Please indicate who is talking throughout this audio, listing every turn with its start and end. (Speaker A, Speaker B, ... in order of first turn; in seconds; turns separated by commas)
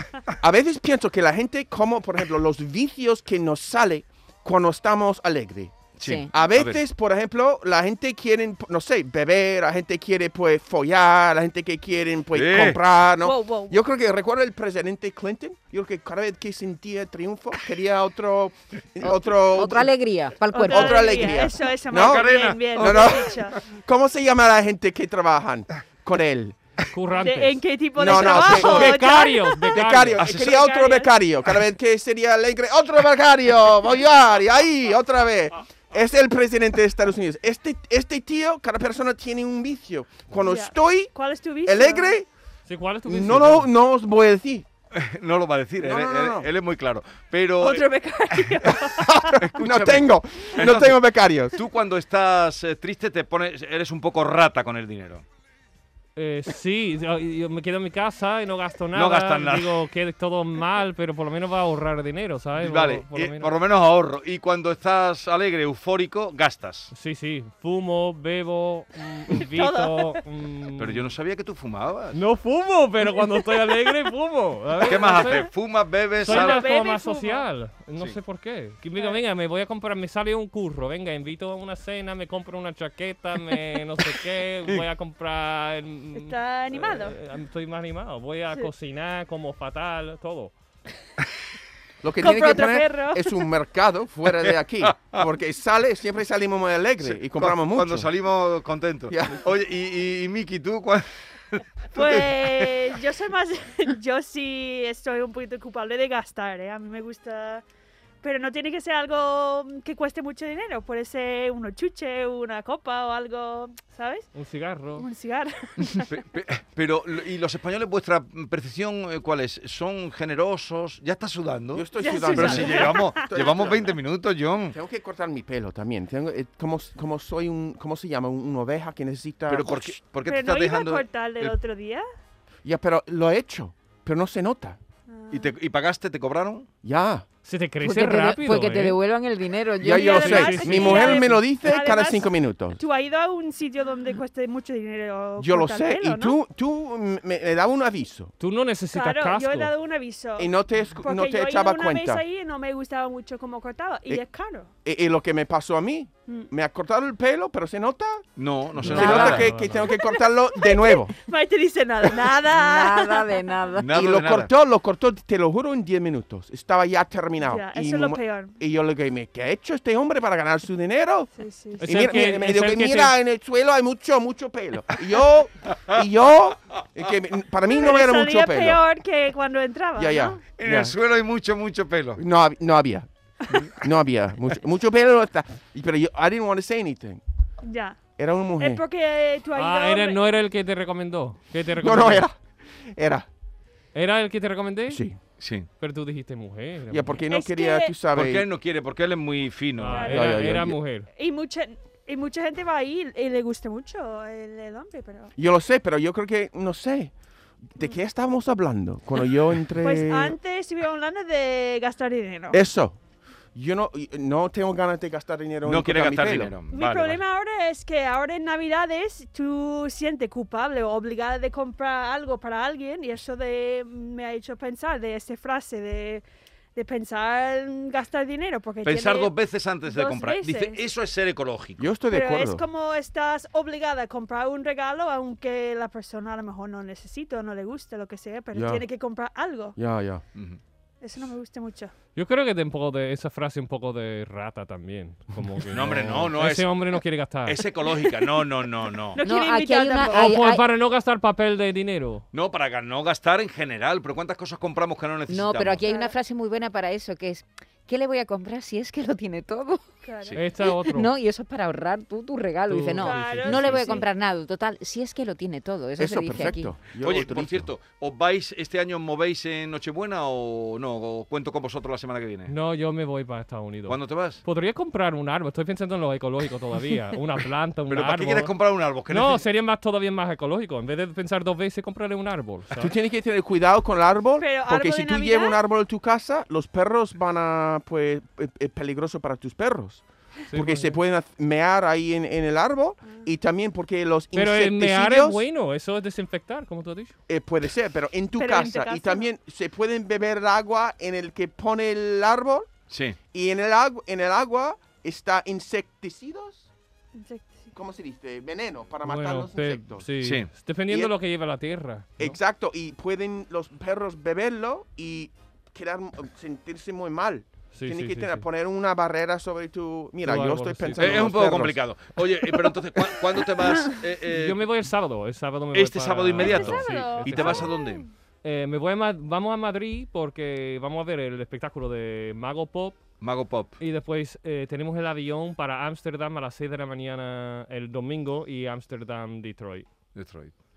Speaker A: 0.3-19.9, Speaker B: 6.0-6.8, Speaker C: 6.0-6.3, Speaker B: 12.3-12.8, Speaker D: 13.2-13.8, Speaker C: 19.0-21.4, Speaker D: 20.5-23.6, Speaker A: 20.7-26.6, Speaker B: 21.9-23.3, Speaker E: 26.9-30.2, Speaker D: 27.1-31.1, Speaker A: 28.0-29.2, Speaker A: 29.7-41.1, Speaker B: 30.2-30.5, Speaker D: 40.4-42.1, Speaker A: 41.6-42.3, Speaker E: 42.7-43.7, Speaker A: 43.0-44.7, Speaker B: 44.9-48.7, Speaker A: 45.8-46.5, Speaker D: 47.6-49.4, Speaker A: 49.1-51.5, Speaker B: 49.4-51.0, Speaker B: 51.5-55.2, Speaker E: 56.1-63.5, Speaker B: 58.9-59.8, Speaker B: 62.6-66.9, Speaker E: 66.9-71.1, Speaker D: 69.5-70.2, Speaker B: 70.8-72.2, Speaker E: 72.1-75.5, Speaker B: 74.8-76.7, Speaker E: 76.2-90.5, Speaker D: 76.2-77.4, Speaker D: 86.1-87.2, Speaker A: 92.0-98.1, Speaker D: 92.2-93.5, Speaker B: 94.8-95.2, Speaker B: 97.0-102.9, Speaker A: 99.1-99.4, Speaker D: 101.9-107.6, Speaker D: 108.2-114.3, Speaker E: 114.3-115.0, Speaker D: 115.0-116.2, Speaker B: 115.9-124.8, Speaker A: 121.7-123.9, Speaker D: 122.0-123.4, Speaker A: 124.7-129.9, Speaker B: 129.5-131.5, Speaker D: 130.2-132.0, Speaker A: 132.6-134.8, Speaker D: 135.1-135.5, Speaker B: 135.3-136.7, Speaker A: 136.8-137.2, Speaker E: 137.4-139.0, Speaker C: 137.8-140.5, Speaker A: 139.8-142.8, Speaker D: 139.9-146.3, Speaker E: 140.0-141.3, Speaker A: 145.4-148.3, Speaker E: 148.4-149.7, Speaker D: 148.9-154.7, Speaker A: 150.4-152.2, Speaker A: 154.8-161.1, Speaker B: 158.3-159.5, Speaker E: 158.8-159.9, Speaker C: 158.9-159.4, Speaker D: 159.9-163.7, Speaker C: 162.5-163.9, Speaker B: 163.8-164.5, Speaker A: 163.9-171.3, Speaker D: 167.4-168.5, Speaker D: 171.4-172.1, Speaker E: 171.8-173.2, Speaker A: 171.8-178.8, Speaker D: 177.7-180.4, Speaker A: 179.9-180.9, Speaker B: 180.6-182.2, Speaker A: 182.2-183.1, Speaker A: 183.8-187.2, Speaker D: 187.6-188.0, Speaker A: 188.2-188.8, Speaker D: 188.6-190.3, Speaker E: 189.5-192.2, Speaker A: 191.8-193.3, Speaker E: 193.9-195.0, Speaker A: 194.9-195.2, Speaker B: 195.4-195.7, Speaker E: 195.8-197.2, Speaker A: 196.9-198.5, Speaker D: 197.3-197.9, Speaker B: 198.1-200.2, Speaker E: 199.8-201.1, Speaker D: 199.9-200.3, Speaker A: 200.1-200.8, Speaker D: 201.2-205.3, Speaker A: 205.4-207.1, Speaker A: 207.7-210.4, Speaker D: 209.8-212.6, Speaker A: 212.5-213.0, Speaker A: 213.5-216.5, Speaker B: 215.6-217.2, Speaker D: 216.7-226.2, Speaker D: 226.7-229.3, Speaker B: 228.8-231.9, Speaker D: 229.8-230.8, Speaker A: 231.8-232.6, Speaker D: 232.1-239.8, Speaker A: 238.5-238.8, Speaker A: 239.8-240.2, Speaker B: 240.3-240.6, Speaker D: 241.0-241.9, Speaker E: 242.1-247.6, Speaker B: 245.7-246.8, Speaker B: 247.4-249.2, Speaker D: 247.9-248.4, Speaker D: 249.1-250.3, Speaker C: 249.2-250.6, Speaker E: 250.1-252.2, Speaker B: 252.3-255.9, Speaker C: 255.3-259.9, Speaker D: 255.8-256.1, Speaker D: 260.0-260.4, Speaker E: 260.3-261.1, Speaker C: 260.6-266.8, Speaker E: 262.7-264.0, Speaker D: 262.9-264.1, Speaker A: 266.0-267.7, Speaker B: 267.0-272.5, Speaker E: 272.5-278.5, Speaker B: 273.9-274.4, Speaker B: 277.9-279.4, Speaker E: 279.1-282.9, Speaker A: 282.8-295.4, Speaker D: 284.4-285.6, Speaker E: 290.5-291.0, Speaker E: 294.3-297.1, Speaker A: 297.3-302.8, Speaker D: 298.4-299.3, Speaker B: 302.9-303.2, Speaker A: 303.3-306.7, Speaker D: 307.1-307.7, Speaker A: 307.7-310.1, Speaker E: 309.0-312.4, Speaker B: 310.2-310.5, Speaker A: 310.9-311.1, Speaker A: 312.2-321.8, Speaker E: 317.7-318.4, Speaker E: 320.2-321.3, Speaker B: 321.0-324.6, Speaker E: 324.3-327.7, Speaker B: 325.7-328.0, Speaker D: 326.4-328.1, Speaker E: 328.4-333.0, Speaker B: 333.2-333.7, Speaker E: 333.8-339.9, Speaker B: 340.1-340.5